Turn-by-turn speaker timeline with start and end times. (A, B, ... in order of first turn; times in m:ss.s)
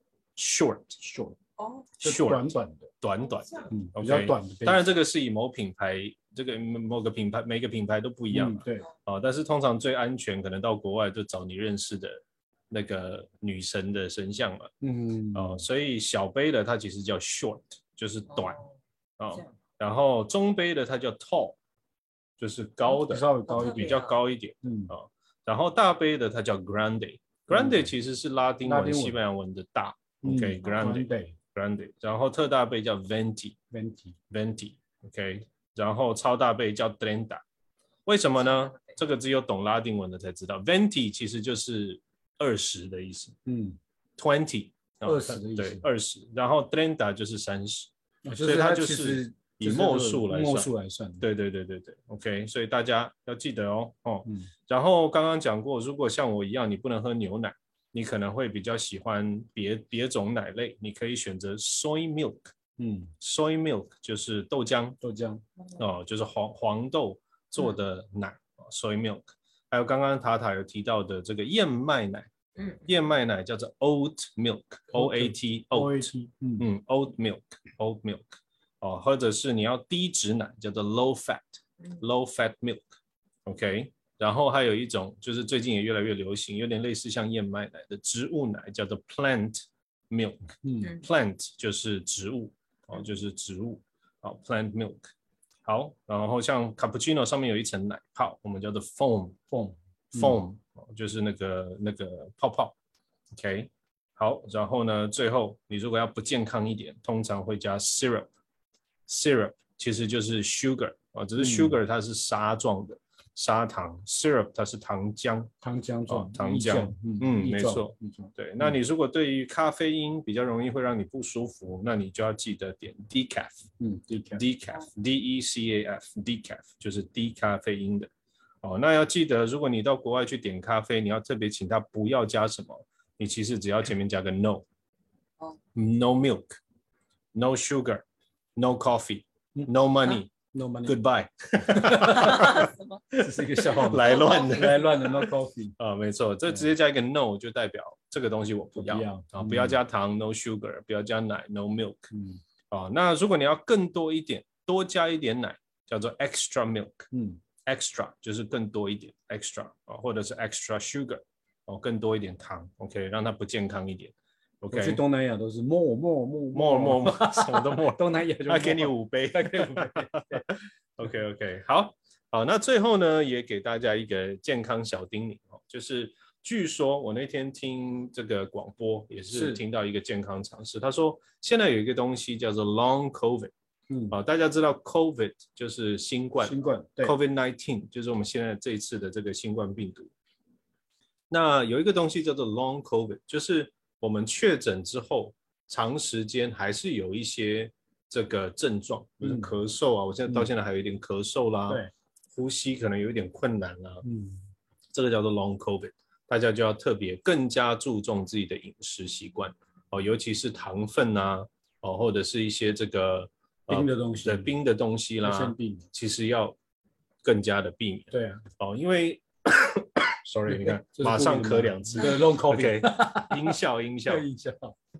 0:00.4-0:01.0 A
0:01.0-0:01.4 B
0:01.6-0:01.9 C
0:02.0-0:02.9 B
0:02.0-0:02.5 A
0:03.0-0:14.7 A
0:03.2-0:03.7 C
0:03.7-0:04.9 B
0:08.3-0:08.8 B
0:14.8-0:15.6 B
0:15.3-0:18.6 A
0:18.3-0:18.8 C
0:19.2-0:21.6 A
0:22.4-0:33.6 A
0:22.9-0:23.9 B
0:23.5-0:24.1 C
0:24.6-0:24.9 B
0:27.5-0:27.9 B
0:28.6-0:29.2 B
0:30.2-0:31.4 B
0:33.7-0:34.1 B
0:34.3-0:37.4 A
0:38.0-0:43.4 A
0:38.4-0:39.0 C
0:43.4-0:43.8 B
0:44.2-1:02.5 A
0:45.0-0:45.8 B
0:48.2-0:51.2 B
1:02.8-1:03.1 B
1:03.2-1:05.0 A
1:05.0-1:05.4 B
1:05.8-1:12.3 A
1:12.6-1:12.8 C
1:12.8-1:22.8 A
1:14.9-1:16.6 B
1:23.4-1:35.1 A
1:30.6-1:30.9 B
1:35.6-1:39.4 A
1:39.5-1:40.4 B
1:40.1-1:42.7 A
1:43.3-1:48.3 A
1:49.1-1:55.5 A
1:51.4-1:51.8 B
1:55.6-1:58.8 B
1:56.1-2:03.7 A
2:03.8-2:04.4 B
2:04.4-2:08.1 A
2:08.6-2:14.6 A
2:15.7-2:16.6 A
2:17.3-2:18.0 A
2:18.6-2:20.3 A
2:20.5-2:21.0 B
2:20.8-2:32.1 A
2:21.7-2:22.5 B
2:22.1-2:23.0 C
2:23.2-2:25.8 B
2:24.0-2:24.7 C
2:28.7-2:29.8 B
2:32.1-2:32.4 B
2:32.7-2:37.1 A
2:37.1-2:37.4 B
2:37.6-2:45.0 A
2:44.7-2:50.5 B
2:46.5-2:47.9 A
2:48.4-2:50.2 A
2:51.0-3:03.5 A
2:59.3-2:59.6 B
3:03.9-3:04.2 B
3:04.1-3:10.1 A
3:06.4-3:07.2 B
3:11.3-3:21.8 A
3:19.2-3:19.5 B
3:22.3-3:24.0 A
3:24.0-3:24.4 B
3:24.9-3:36.6 A
3:33.7-3:34.5 B
3:35.2-3:35.9 B
3:37.2-3:44.2 A
3:38.1-3:38.4 B
3:40.4-3:44.8 B